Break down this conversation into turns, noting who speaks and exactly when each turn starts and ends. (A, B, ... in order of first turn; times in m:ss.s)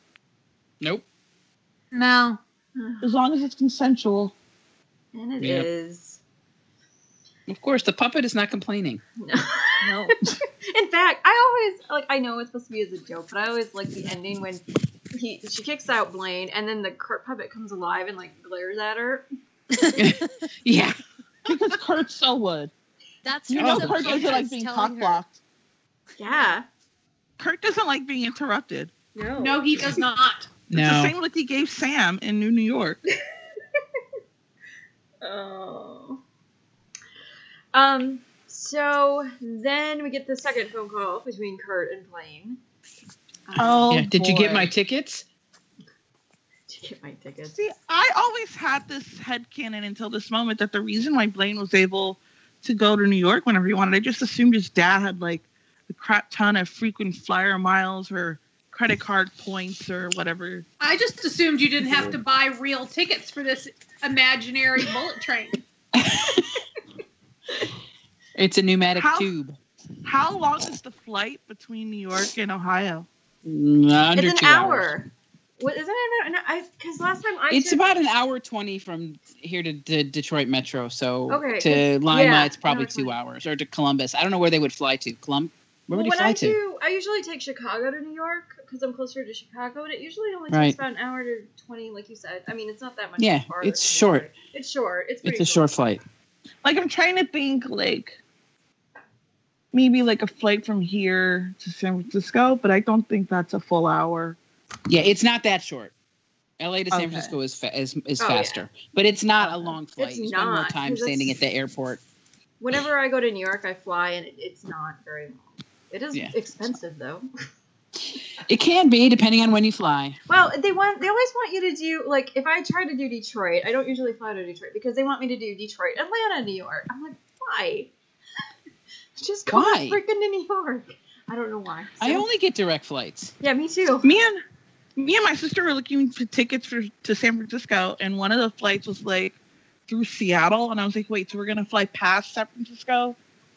0:01.9-0:02.4 A
0:02.8-0:03.1 B
0:03.0-0:04.3 C
0:05.1-0:06.2 B
0:05.4-0:05.7 D
0:07.5-0:09.0 D
0:09.2-0:19.2 B
0:09.8-0:10.1 E
0:19.7-0:20.2 E
0:20.0-0:21.0 D
0:21.4-0:22.7 C
0:23.2-0:25.2 E
0:23.5-0:25.4 C
0:23.5-0:24.2 D
0:26.2-0:26.6 B
0:27.4-0:28.9 C
0:29.1-0:30.0 B
0:29.4-0:30.5 A
0:30.7-0:31.1 D
0:30.7-0:33.0 C
0:35.2-0:36.2 B
0:37.7-0:42.6 B
0:43.5-0:43.9 B
0:43.6-0:44.7 C
0:43.9-0:45.2 D
0:46.7-0:47.6 B
0:47.5-1:00.6 C
1:00.8-1:05.6 A
1:01.8-1:02.2 C
1:05.9-1:06.6 D
1:08.3-1:09.6 D
1:09.0-1:09.3 C
1:10.0-1:13.1 C
1:13.4-1:14.9 D
1:14.1-1:17.8 B
1:17.5-1:26.6 D
1:21.3-1:23.2 B
1:25.9-1:35.7 B
1:30.5-1:30.8 D
1:33.2-1:34.3 D
1:35.2-1:36.0 D
1:36.6-1:38.2 C
1:39.7-1:44.4 C
1:44.9-1:45.9 D
1:46.6-1:52.0 D
1:46.9-1:47.3 C
1:48.2-1:48.7 B
1:49.4-1:51.4 B
1:52.6-1:57.2 B
1:56.1-1:56.7 D
1:58.4-2:00.2 D
2:00.3-2:07.9 B
2:09.2-2:12.3 B
2:09.5-2:10.0 D
2:12.0-2:13.3 D
2:13.4-2:14.1 B
2:14.0-2:14.4 C
2:15.0-2:19.4 C
2:19.9-2:23.2 C